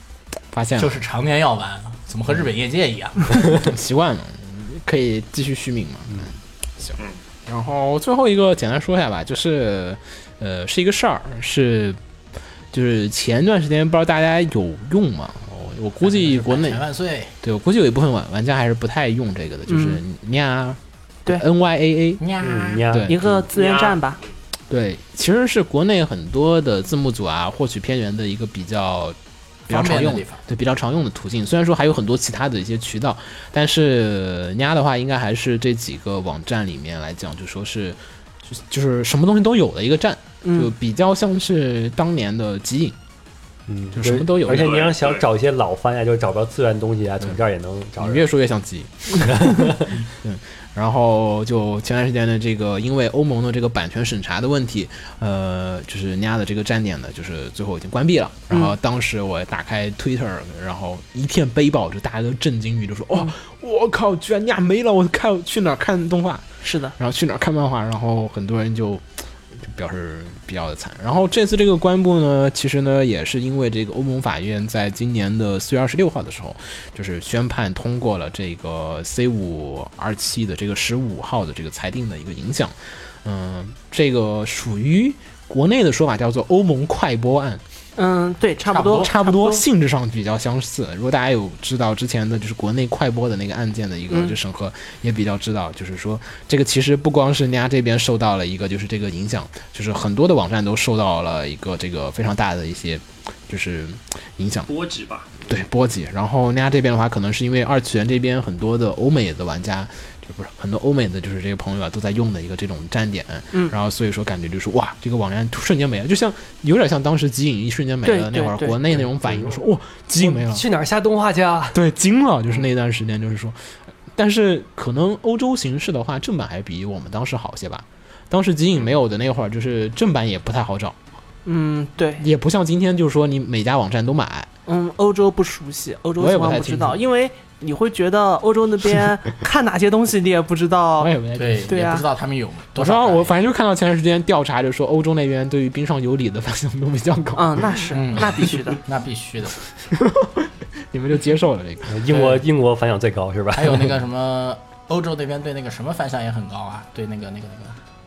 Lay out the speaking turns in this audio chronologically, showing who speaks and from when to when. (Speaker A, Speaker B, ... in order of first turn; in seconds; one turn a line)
Speaker A: 0.5-0.9
Speaker B: 0.8-3.6
Speaker A: 3.5-12.0
Speaker A: 12.7-16.8
Speaker B: 16.0-17.3
Speaker A: 17.4-22.2
Speaker C: 19.7-20.0
Speaker B: 22.2-22.9
Speaker D: 22.4-23.4
Speaker A: 22.9-23.4
Speaker C: 23.1-24.2
Speaker E: 23.5-24.0
Speaker A: 24.7-29.2
Speaker A: 29.7-43.0
Speaker B: 29.7-30.4
Speaker C: 40.4-40.7
Speaker D: 43.7-48.2
Speaker A: 43.9-44.8
Speaker E: 44.5-45.2
Speaker A: 48.0-66.5
Speaker D: 49.2-50.0
Speaker C: 66.6-67.0
Speaker A: 67.0-87.6
Speaker C: 88.0-89.6
Speaker B: 88.7-89.0
Speaker A: 88.8-104.7
Speaker C: 94.1-94.3
Speaker E: 104.7-105.3
Speaker A: 105.4-120.6
Speaker C: 118.0-118.8
Speaker D: 119.0-119.6
Speaker D: 120.2-121.8
Speaker A: 121.7-123.5
Speaker A: 124.1-130.9
Speaker C: 131.4-132.2
Speaker A: 132.2-134.5
Speaker C: 134.7-141.1
Speaker A: 136.2-137.0
Speaker A: 141.0-141.7
Speaker B: 141.4-143.3
Speaker C: 141.7-142.0
Speaker A: 142.8-147.8
Speaker C: 147.3-148.8
Speaker B: 147.9-149.6
Speaker A: 149.9-152.2
Speaker D: 151.9-153.9
Speaker B: 152.1-152.4
Speaker B: 153.5-157.8